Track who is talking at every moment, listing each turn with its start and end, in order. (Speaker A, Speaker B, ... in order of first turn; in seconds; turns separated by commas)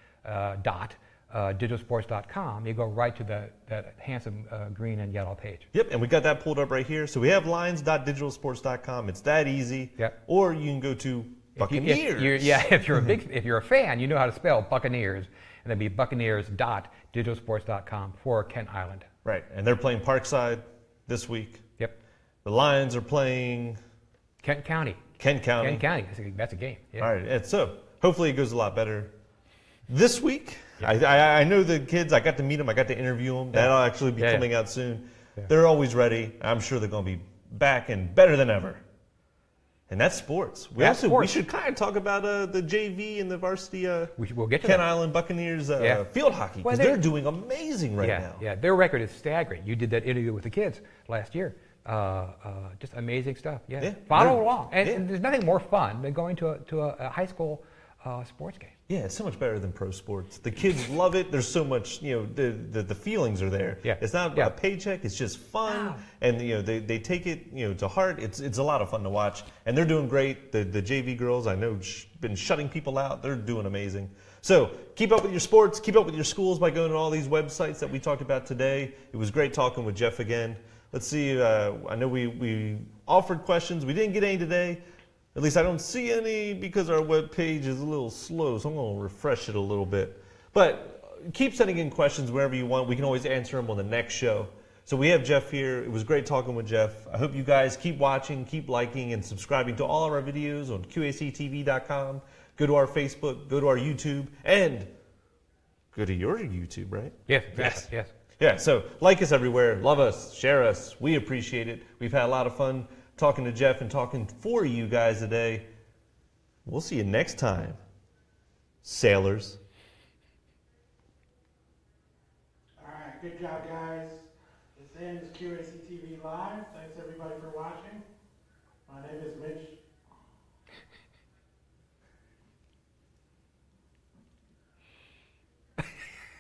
Speaker A: 0.2-5.7, Speaker B: 5.7-12.8, Speaker A: 11.6-19.1, Speaker B: 19.2-21.6, Speaker B: 22.4-23.8, Speaker A: 24.4-25.0, Speaker B: 25.2-25.9, Speaker A: 25.6-27.1, Speaker B: 27.0-29.1, Speaker B: 29.9-38.8, Speaker A: 33.5-34.5, Speaker B: 39.9-48.5, Speaker A: 40.8-41.4, Speaker A: 44.2-44.9, Speaker A: 45.8-46.0, Speaker A: 46.6-47.0, Speaker A: 48.0-58.7, Speaker B: 53.8-55.0, Speaker B: 58.9-84.8, Speaker A: 63.8-64.5, Speaker A: 65.7-66.0, Speaker B: 85.3-104.9, Speaker B: 105.9-107.9, Speaker A: 107.3-108.1, Speaker B: 108.4-115.7, Speaker B: 116.7-117.8, Speaker B: 118.8-119.6, Speaker C: 122.8-128.0, Speaker C: 128.9-129.8